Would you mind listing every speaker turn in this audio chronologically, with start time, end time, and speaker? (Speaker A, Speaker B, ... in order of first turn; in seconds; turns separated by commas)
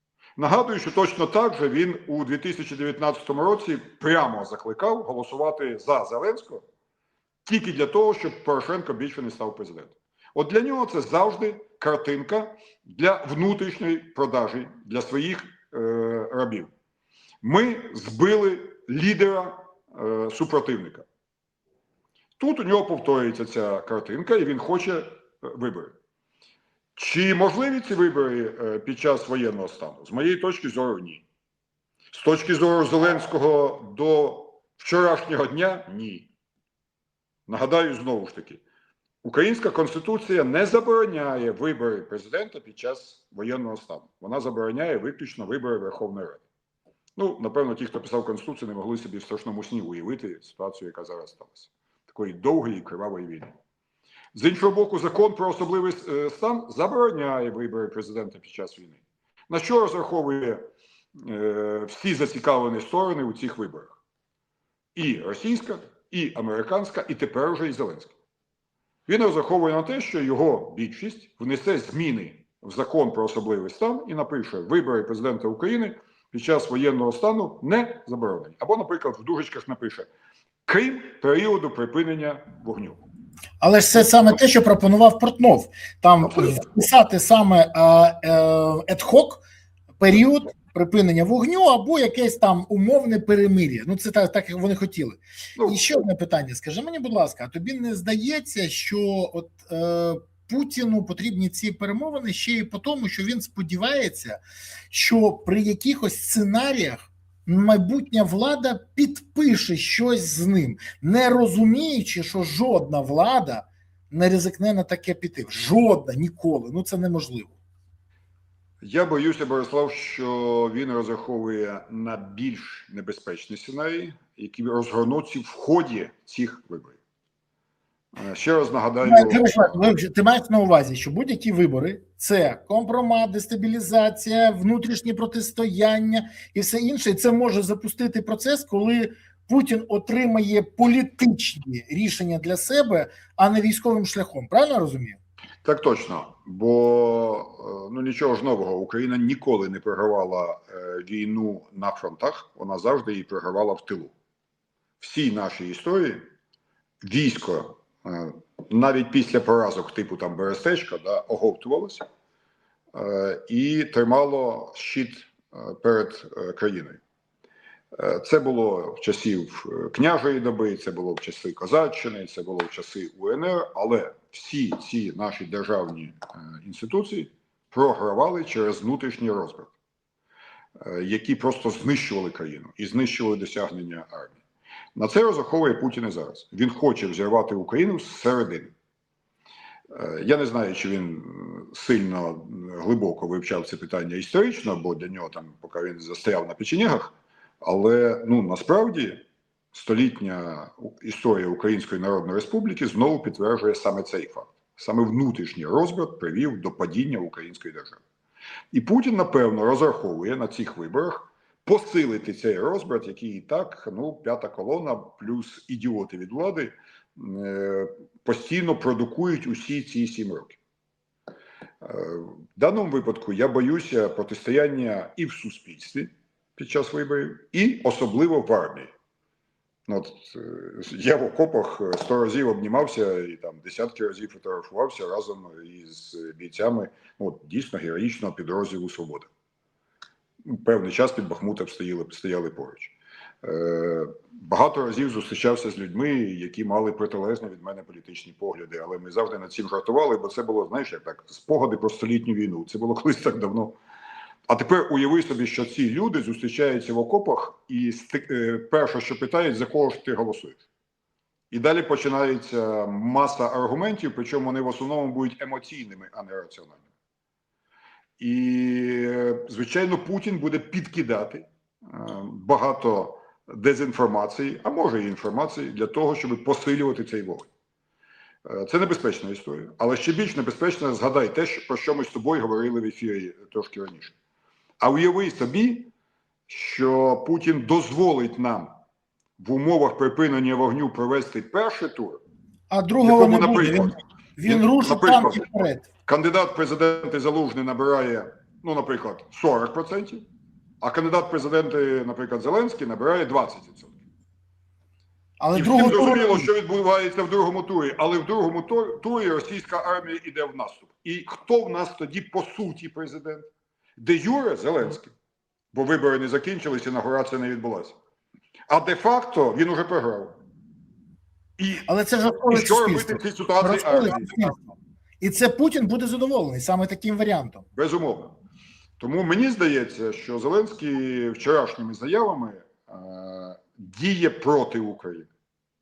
Speaker A: 0.4-6.6, Speaker A: 7.5-16.7, Speaker A: 17.4-21.1, Speaker A: 22.4-26.0, Speaker A: 27.0-31.2, Speaker A: 32.1-36.3, Speaker A: 37.5-38.6, Speaker A: 39.2-46.5, Speaker A: 47.2-53.5, Speaker A: 54.3-59.0, Speaker A: 59.5-60.6, Speaker A: 61.2-64.0, Speaker A: 65.0-68.1, Speaker A: 69.1-80.1, Speaker A: 80.7-83.0, Speaker B: 83.6-89.4, Speaker A: 86.2-86.6, Speaker B: 90.0-117.6, Speaker A: 95.6-95.8, Speaker A: 118.8-127.0, Speaker A: 128.2-129.4, Speaker B: 129.0-145.2, Speaker A: 145.6-154.1, Speaker A: 155.0-156.2, Speaker A: 157.0-162.0, Speaker A: 162.9-167.0, Speaker A: 167.9-179.8, Speaker A: 180.8-184.4, Speaker A: 185.0-188.7, Speaker A: 189.9-197.1, Speaker A: 197.6-199.2, Speaker A: 199.7-208.0, Speaker A: 208.7-220.6, Speaker A: 221.8-228.9, Speaker A: 229.9-239.3, Speaker A: 240.5-253.8, Speaker A: 254.5-260.6, Speaker A: 261.5-266.8, Speaker A: 268.2-277.5, Speaker A: 278.4-284.2, Speaker A: 284.8-285.9, Speaker A: 286.5-288.7, Speaker A: 289.4-292.2, Speaker B: 292.7-295.9, Speaker A: 293.0-300.2, Speaker A: 300.8-304.0, Speaker B: 305.4-306.5, Speaker A: 305.5-315.1, Speaker A: 315.7-318.0, Speaker A: 318.7-320.4, Speaker A: 321.6-321.9, Speaker B: 321.9-324.7, Speaker A: 322.4-324.5, Speaker B: 325.2-327.6, Speaker A: 327.8-328.3, Speaker A: 329.0-335.3